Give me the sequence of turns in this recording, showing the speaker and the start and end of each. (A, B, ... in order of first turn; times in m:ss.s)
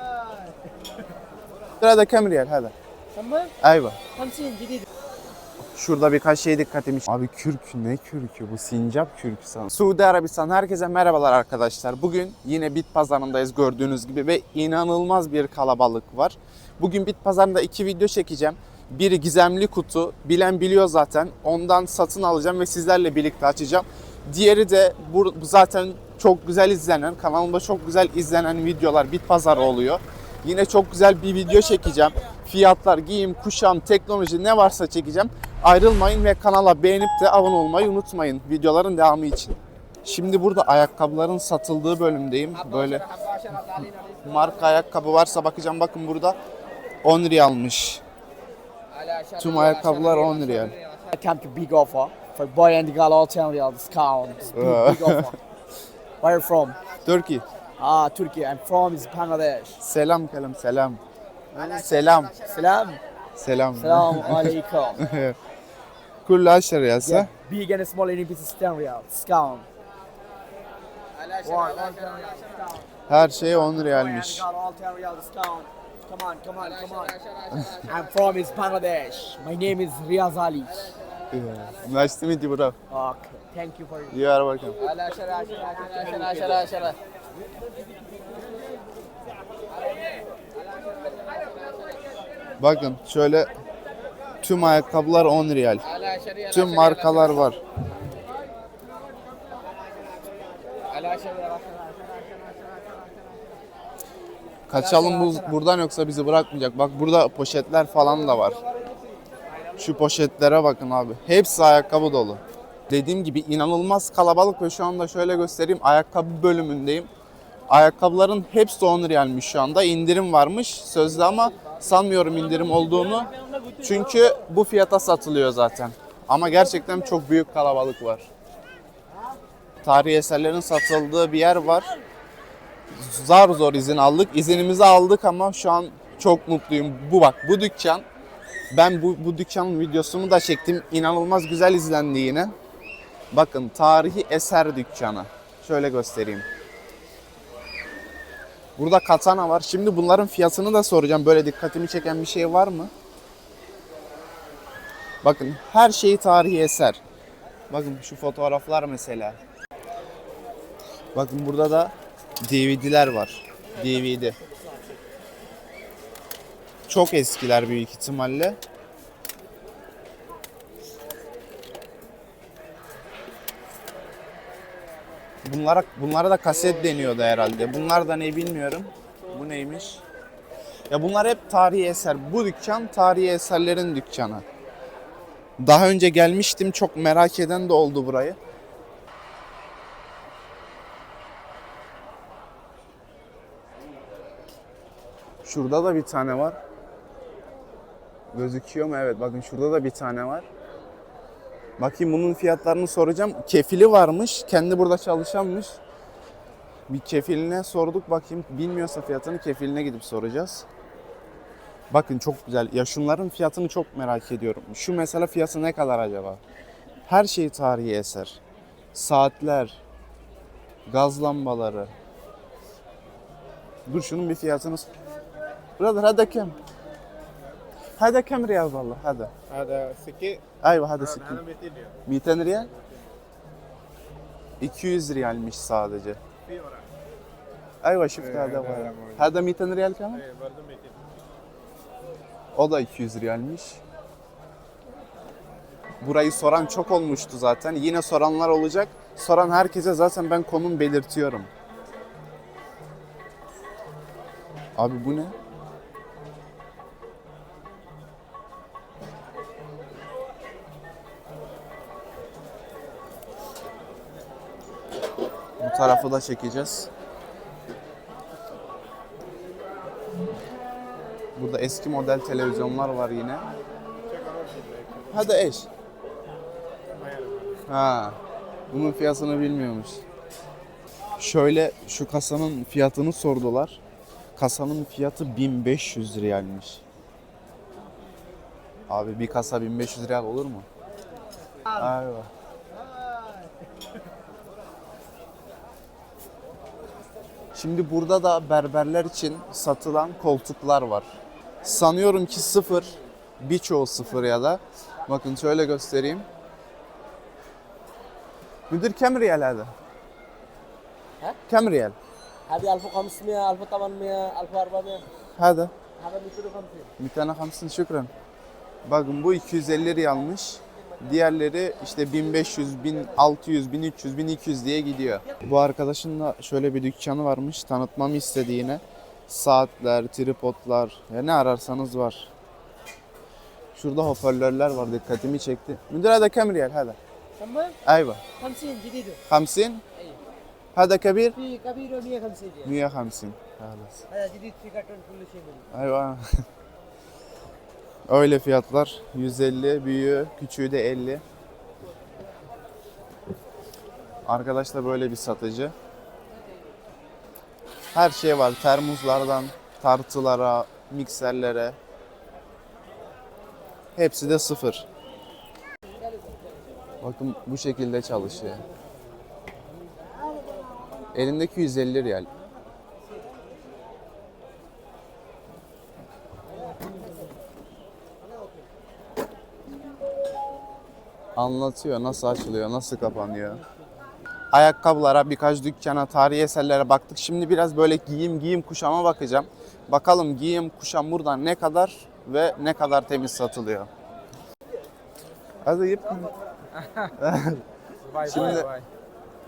0:01.8-0:02.7 A
0:03.1-0:03.5 B
0:03.6-0:04.0 A
0:04.1-0:04.8 B
0:05.7-0:43.1 A
0:42.8-0:43.9 B
0:44.2-0:46.4 A
0:47.0-0:48.0 A
0:48.9-0:55.4 B
0:49.3-0:50.8 A
0:54.5-0:55.3 A
0:56.2-0:56.8 B
0:57.0-0:57.4 A
0:57.8-0:59.8 B
0:59.8-1:01.0 A
1:01.5-1:02.4 A
1:02.3-1:03.0 B
1:03.4-1:05.4 A
1:03.8-1:05.0 B
1:06.2-1:07.3 A
1:07.0-1:09.7 B
1:11.2-1:21.0 B
1:13.1-1:14.4 A
1:21.3-1:22.8 A
1:22.9-1:24.2 B
1:24.1-1:24.8 A
1:24.8-1:27.0 B
1:31.2-1:31.5 B
1:32.6-1:33.5 A
1:34.4-1:35.8 A
1:36.1-1:36.4 B
1:36.5-1:37.6 A
1:40.9-1:42.5 B
1:44.7-1:45.5 B
1:44.7-1:48.6 A
1:49.8-1:57.1 A
1:57.7-2:08.3 A
2:09.8-2:11.9 A
2:12.9-2:18.0 A
2:18.7-2:22.5 A
2:23.3-2:26.4 A
2:28.8-2:32.9 A
2:35.2-2:37.0 A
2:37.7-2:39.4 A
2:41.1-2:41.9 A
2:42.4-2:44.4 A
2:46.9-2:48.6 A
2:55.4-3:00.0 A
3:00.9-3:04.4 A
3:05.6-3:08.4 A
3:15.4-3:16.6 A
3:18.3-3:20.5 A
3:21.8-3:25.8 A
3:26.9-3:30.6 A
3:31.9-3:36.4 A
3:37.1-3:38.4 A
3:38.9-3:39.8 A
3:40.9-3:41.9 A
3:43.9-3:44.9 A
3:45.8-3:46.6 A
3:48.0-3:49.3 A
3:49.5-3:50.4 C
3:50.6-3:51.4 A
3:51.2-3:51.9 C
3:52.0-3:52.7 A
3:54.6-3:56.2 A
3:57.8-4:00.2 A
3:58.2-3:59.3 C
4:00.2-4:01.0 C
4:02.5-4:03.8 A
4:06.0-4:11.5 A
4:14.8-4:15.3 A
4:25.6-4:26.9 A
4:31.4-4:33.4 A
4:34.1-4:35.2 C
4:35.1-4:35.7 A
4:36.9-4:37.6 C
4:37.7-4:38.2 A
4:38.7-4:40.0 A
4:41.2-4:43.8 A
4:44.4-4:46.8 A
4:48.9-4:50.6 A
4:51.7-4:52.3 A
4:57.5-5:01.1 A
5:01.6-5:06.3 A
5:08.7-5:09.7 A
5:11.5-5:12.0 A
5:12.5-5:15.0 B
5:15.4-5:15.7 A
5:16.0-5:16.9 B
5:17.0-5:18.1 A
5:18.8-5:32.3 A
5:33.7-5:37.0 A
5:37.4-5:37.8 B
5:37.8-5:38.2 A
5:38.4-5:39.2 B
5:39.3-5:39.8 A
5:40.7-5:41.4 A
5:41.3-5:42.8 B
5:42.6-5:44.0 A
5:44.1-5:45.6 B
5:45.7-5:46.2 A
5:48.1-5:51.2 A
5:54.2-5:55.7 A
5:57.9-6:01.8 A
6:04.0-6:04.8 A
6:07.0-6:08.6 A
6:11.1-6:12.3 A
6:21.3-6:23.6 A
6:24.5-6:33.9 A
6:35.6-6:36.3 A
6:37.2-6:37.6 A
6:38.0-6:38.8 B
6:38.2-6:38.7 A